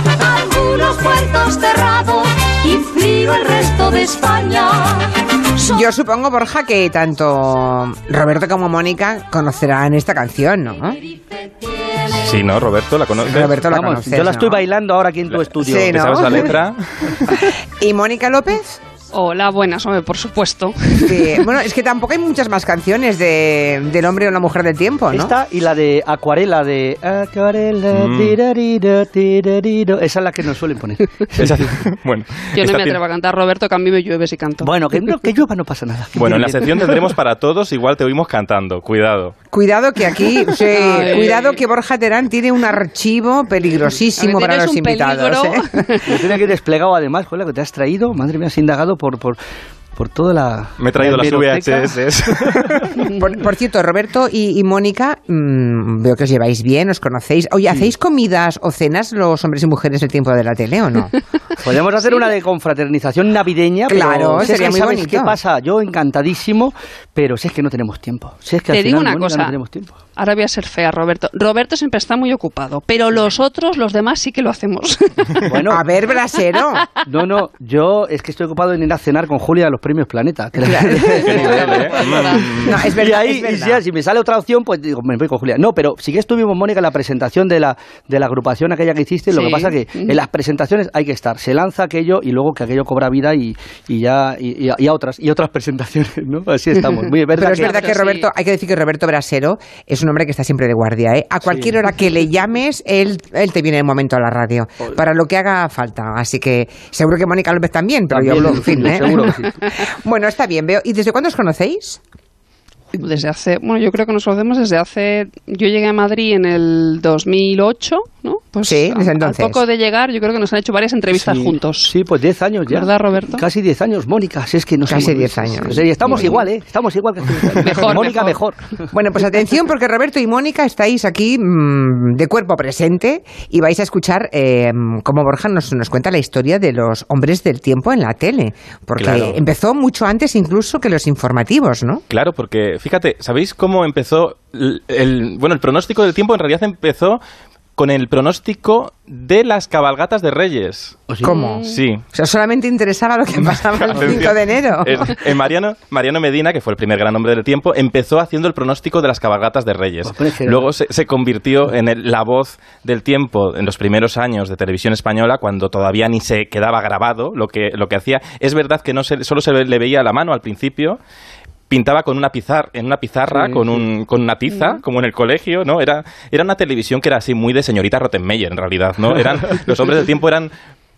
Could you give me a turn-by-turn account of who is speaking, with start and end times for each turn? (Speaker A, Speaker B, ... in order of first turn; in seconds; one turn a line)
Speaker A: 0.2-5.1
Speaker B: 5.6-11.0
Speaker A: 11.2-12.3
Speaker C: 12.2-13.6
Speaker B: 13.2-14.6
Speaker D: 13.7-16.5
Speaker C: 15.3-17.2
Speaker B: 15.6-16.5
Speaker B: 17.3-18.8
Speaker E: 19.1-21.4
Speaker B: 21.0-25.3
Speaker D: 25.1-31.8
Speaker C: 27.9-28.4
Speaker C: 31.4-33.0
Speaker E: 32.5-34.7
Speaker D: 34.6-37.1
Speaker C: 36.1-39.4
Speaker B: 39.5-45.9
Speaker E: 40.7-41.6
Speaker E: 44.2-46.2
Speaker D: 46.1-49.4
Speaker D: 49.9-52.7
Speaker C: 50.8-53.0
Speaker B: 53.1-61.1
Speaker D: 61.6-70.0
Speaker B: 63.9-65.4
Speaker E: 68.7-69.5
Speaker E: 70.2-75.5
Speaker D: 75.5-75.8
Speaker B: 75.7-76.8
Speaker D: 77.0-97.8
Speaker B: 80.6-81.6
Speaker C: 81.2-82.9
Speaker E: 81.9-82.4
Speaker B: 82.6-83.8
Speaker E: 89.3-90.2
Speaker B: 97.3-112.0
Speaker E: 97.4-98.3
Speaker D: 101.5-101.8
Speaker D: 108.1-109.7
Speaker E: 112.9-121.9
Speaker B: 118.6-119.6
Speaker D: 121.1-128.8
Speaker E: 122.7-123.4
Speaker B: 124.8-126.3
Speaker E: 126.0-126.5
Speaker E: 127.6-128.4
Speaker B: 128.9-142.0
Speaker C: 139.0-139.4
Speaker C: 142.1-147.2
Speaker C: 147.8-151.0
Speaker D: 151.1-151.3
Speaker B: 151.2-155.1
Speaker E: 151.2-151.8
Speaker C: 151.6-152.0
Speaker C: 153.8-171.0
Speaker D: 160.1-160.7
Speaker C: 171.7-180.5
Speaker D: 173.3-173.8
Speaker E: 174.5-174.8